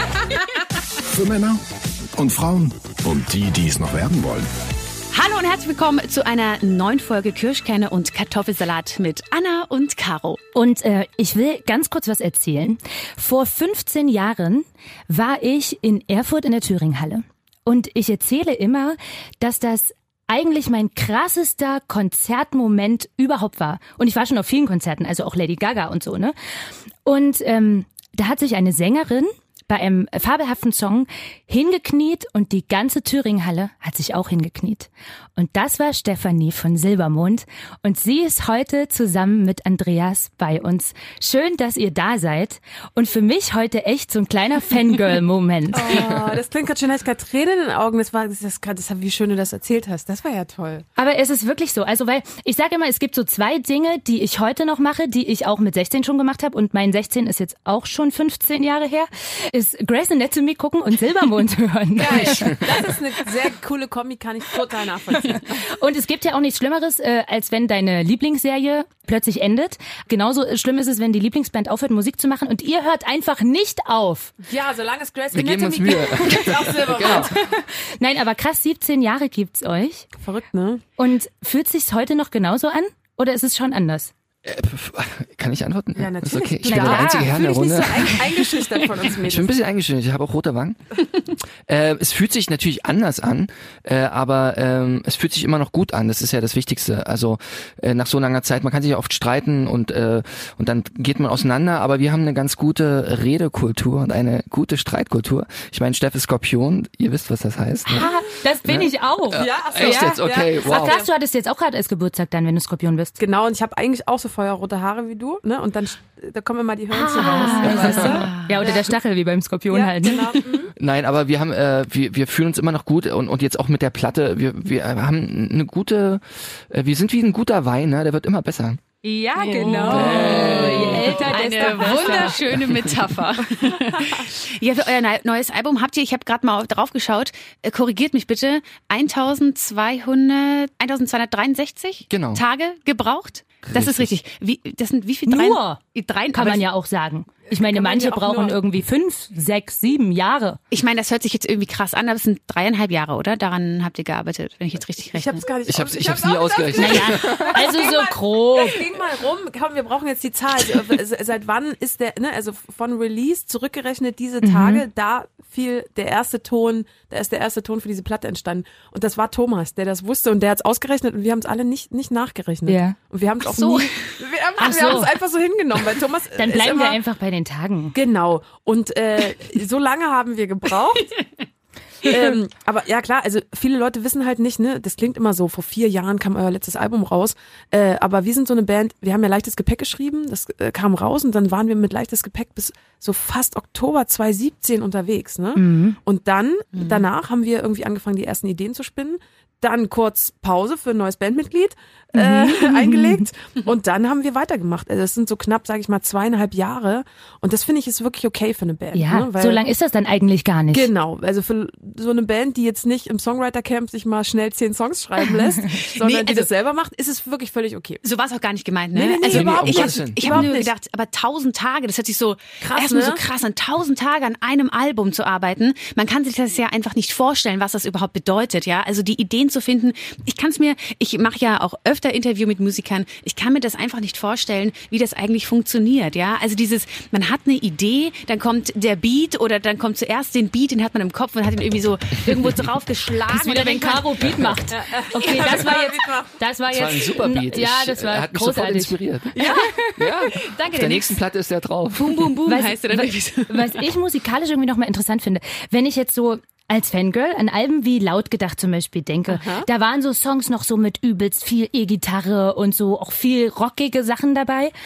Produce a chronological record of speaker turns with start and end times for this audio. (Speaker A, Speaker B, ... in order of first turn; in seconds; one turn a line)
Speaker A: 1.0-1.6
Speaker A: 2.2-4.5
Speaker B: 5.1-10.4
Speaker C: 10.5-26.4
Speaker C: 27.0-46.0
Speaker D: 45.7-50.9
Speaker E: 45.9-46.4
Speaker C: 51.0-62.8
Speaker D: 62.0-65.6
Speaker C: 65.5-74.3
Speaker D: 74.4-77.4
Speaker E: 75.3-77.3
Speaker C: 77.1-80.1
Speaker D: 80.2-80.8
Speaker C: 81.0-84.1
Speaker E: 84.4-88.5
Speaker D: 86.0-89.5
Speaker C: 86.7-87.3
Speaker E: 89.2-111.0
Speaker C: 107.9-113.2
Speaker D: 109.3-111.1
Speaker D: 113.2-118.8
Speaker C: 116.9-120.5
Speaker B: 117.2-118.6
Speaker E: 117.6-118.2
Speaker D: 119.7-120.7
Speaker E: 120.8-128.8
Speaker C: 129.0-132.4
Speaker D: 129.4-132.4
Speaker E: 129.8-131.2
Speaker B: 130.8-146.6
Speaker E: 132.5-133.1
Speaker D: 133.6-134.3
Speaker E: 142.1-142.4
Speaker E: 143.7-144.1
Speaker C: 145.3-145.8
Speaker C: 146.3-150.6
Speaker D: 147.5-148.6
Speaker B: 150.7-155.4
Speaker D: 155.1-177.0
Speaker E: 155.7-157.9
Speaker C: 156.8-158.8
Speaker C: 164.4-164.8
Speaker C: 172.7-173.0
Speaker B: 173.4-174.1
Speaker C: 174.6-175.1
Speaker C: 176.3-177.9
Speaker D: 177.9-181.2
Speaker D: 182.0-209.6
Speaker C: 195.6-196.0
Speaker B: 196.7-197.0
Speaker C: 202.1-203.2
Speaker C: 208.9-210.9
Speaker D: 210.7-218.0
Speaker B: 215.6-216.5
Speaker B: 218.0-244.3
Speaker D: 218.9-220.7
Speaker E: 219.2-220.5
Speaker D: 222.6-223.2
Speaker C: 243.3-250.0
Speaker E: 244.2-244.5
Speaker D: 244.7-246.4
Speaker B: 245.2-245.8
Speaker E: 246.7-249.4
Speaker D: 249.3-249.7
Speaker B: 249.4-249.7
Speaker E: 250.0-252.4
Speaker B: 250.3-251.2
Speaker B: 252.0-253.8
Speaker C: 252.5-264.7
Speaker D: 259.3-259.7